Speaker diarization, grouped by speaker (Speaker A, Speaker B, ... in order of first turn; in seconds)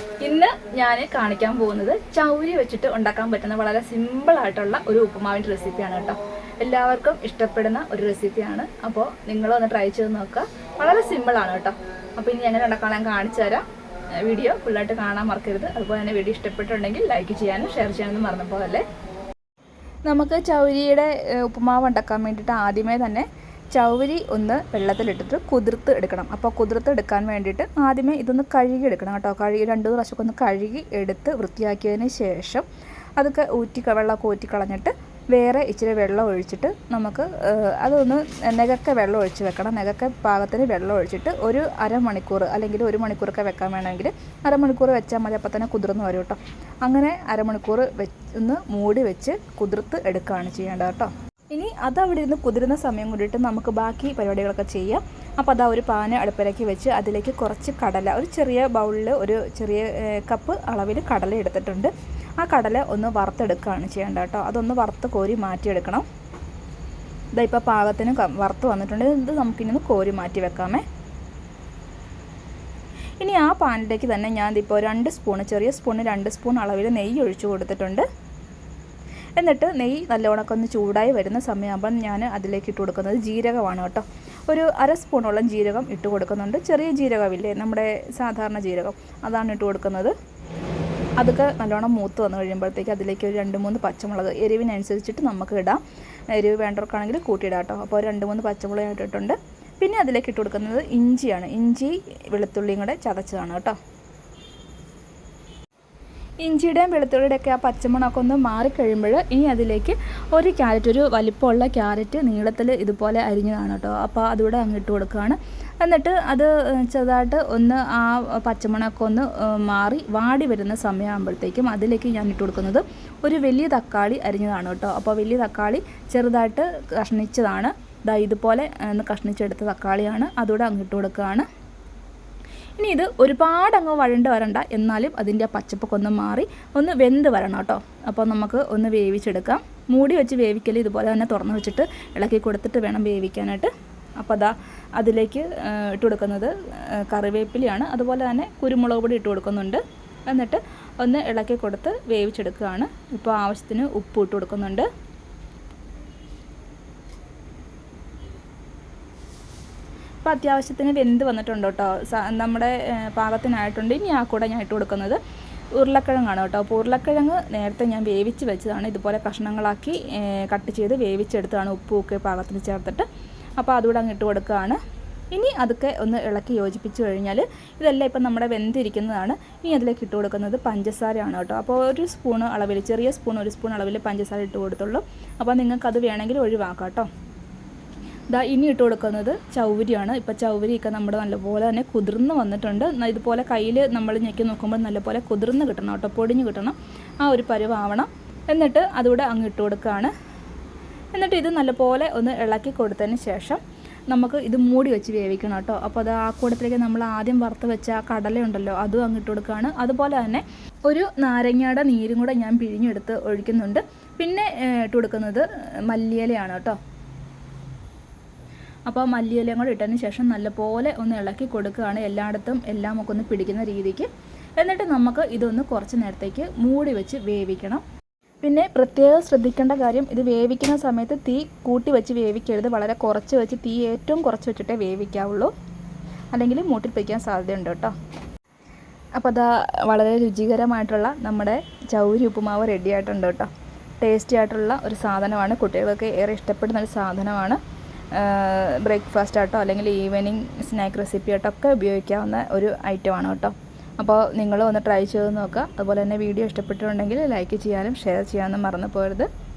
Speaker A: 0.2-13.7, 14.2-18.9, 20.1-32.7, 33.2-66.0, 67.4-70.8, 73.2-78.1, 79.4-90.1, 91.2-95.8, 96.3-103.8, 106.4-131.5, 132.8-154.9, 160.2-165.2, 165.8-173.1, 173.6-174.8, 175.3-187.1, 188.3-200.1, 201.2-216.8, 218.9-227.8, 228.4-235.5, 236.3-237.9, 239.2-243.5, 244.0-247.6, 248.1-259.3